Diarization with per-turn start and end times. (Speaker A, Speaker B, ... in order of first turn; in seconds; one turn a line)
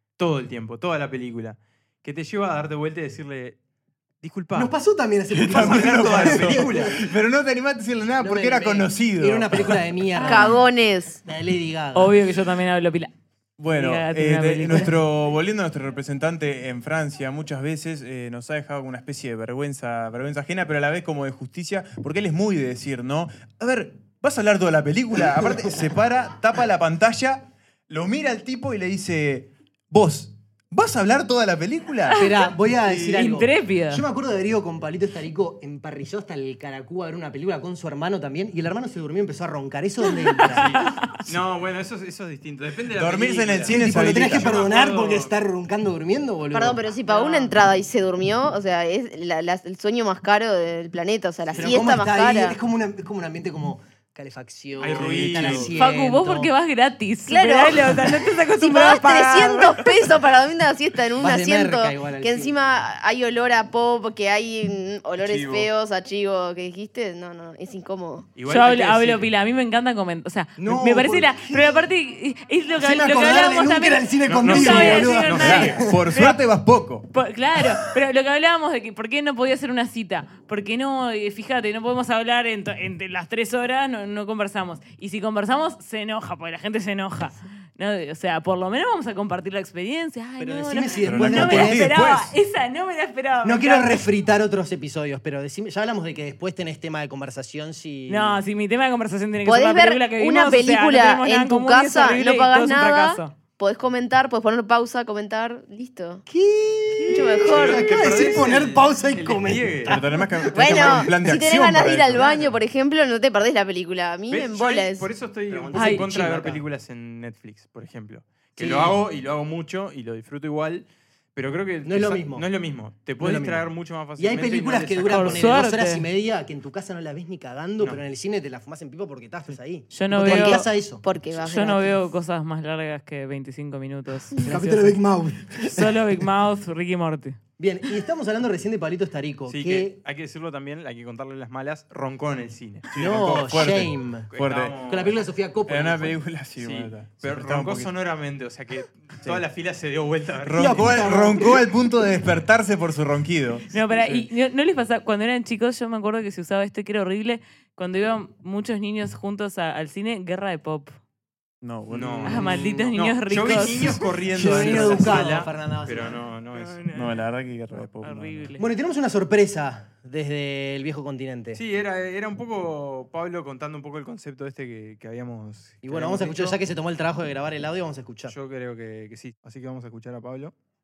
Speaker A: 0.2-3.6
Speaker A: 4.2-4.7
Speaker B: 4.5-7.0
Speaker C: 5.3-9.8
Speaker A: 5.5-7.0
Speaker B: 8.2-10.6
Speaker D: 10.1-10.6
Speaker E: 10.2-11.2
Speaker B: 11.2-12.2
Speaker D: 11.9-13.1
Speaker C: 13.6-32.2
Speaker D: 13.7-14.9
Speaker B: 32.1-40.9
Speaker C: 32.9-33.2
Speaker D: 33.1-34.0
Speaker A: 40.5-45.3
Speaker D: 40.6-41.1
Speaker C: 42.9-44.5
Speaker B: 43.7-47.5
Speaker E: 46.5-52.6
Speaker B: 51.5-56.5
Speaker A: 54.8-55.7
Speaker C: 54.9-55.7
Speaker D: 55.7-59.7
Speaker E: 57.3-68.3
Speaker B: 61.2-62.5
Speaker C: 65.2-65.7
Speaker A: 68.3-69.2
Speaker D: 68.5-76.4
Speaker B: 70.6-71.8
Speaker B: 72.8-76.0
Speaker A: 74.2-75.8
Speaker C: 75.4-77.1
Speaker D: 77.1-94.0
Speaker B: 90.4-91.9
Speaker C: 91.0-92.3
Speaker B: 93.4-98.4
Speaker D: 98.1-103.3
Speaker E: 99.4-106.2
Speaker B: 106.3-111.1
Speaker A: 107.0-110.0
Speaker E: 107.1-108.3
Speaker C: 109.8-112.2
Speaker E: 110.5-115.1
Speaker A: 112.2-112.5
Speaker A: 114.3-125.6
Speaker B: 115.5-116.6
Speaker D: 115.7-116.1
Speaker B: 118.6-119.0
Speaker B: 121.8-122.5
Speaker B: 123.2-131.0
Speaker D: 125.0-126.1
Speaker D: 129.9-130.7
Speaker E: 130.2-131.9
Speaker D: 131.3-137.4
Speaker B: 134.4-136.0
Speaker B: 137.6-140.0
Speaker A: 139.5-142.9
Speaker B: 142.9-144.3
Speaker C: 142.9-144.8
Speaker A: 144.3-145.2
Speaker B: 144.8-146.2
Speaker C: 145.7-147.9
Speaker A: 146.6-151.1
Speaker C: 150.4-154.3
Speaker B: 150.6-151.6
Speaker D: 153.7-161.0
Speaker C: 161.6-162.6
Speaker A: 161.9-166.9
Speaker D: 162.3-165.1
Speaker B: 164.3-166.2
Speaker D: 166.5-167.1
Speaker C: 166.9-168.5
Speaker D: 168.0-168.7
Speaker B: 168.6-171.6
Speaker A: 171.5-176.6
Speaker B: 175.8-178.3
Speaker A: 178.3-180.5